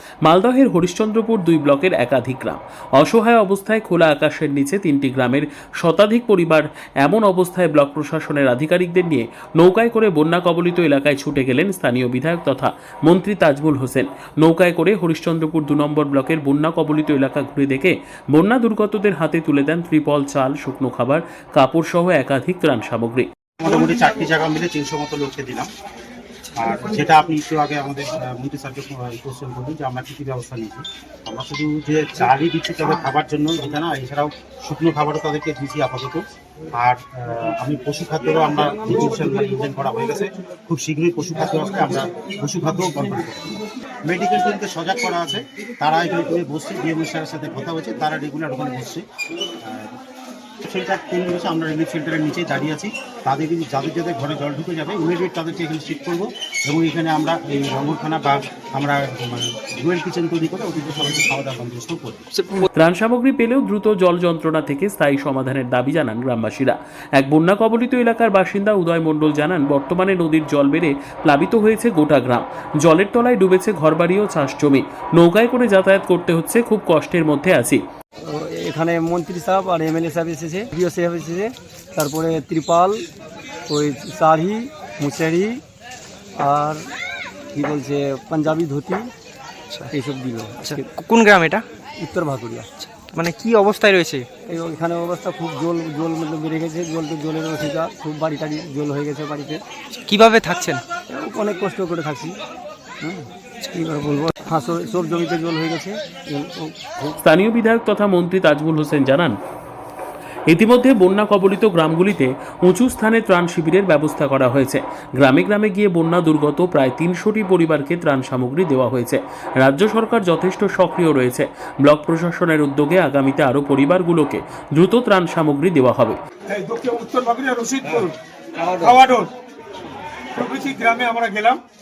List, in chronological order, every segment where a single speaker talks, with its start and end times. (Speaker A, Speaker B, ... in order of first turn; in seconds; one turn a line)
Speaker A: 0.4-23.3
Speaker B: 23.6-25.7
Speaker B: 26.5-36.2
Speaker B: 36.7-43.5
Speaker B: 44.0-49.0
Speaker B: 49.6-49.9
Speaker B: 50.6-62.3
Speaker A: 62.8-63.6
Speaker A: 64.1-77.8
Speaker C: 78.2-83.0
Speaker C: 83.7-85.6
Speaker C: 86.4-86.9
Speaker C: 87.5-89.1
Speaker C: 89.8-90.9
Speaker D: 90.6-91.7
Speaker C: 92.0-92.7
Speaker D: 92.8-94.3
Speaker C: 94.5-99.6
Speaker D: 99.9-100.8
Speaker C: 101.1-102.3
Speaker C: 103.0-107.2
Speaker A: 107.3-109.3
Speaker A: 110.5-126.2
Speaker E: 126.5-128.1
Speaker E: 128.7-129.3
Speaker E: 130.3-131.6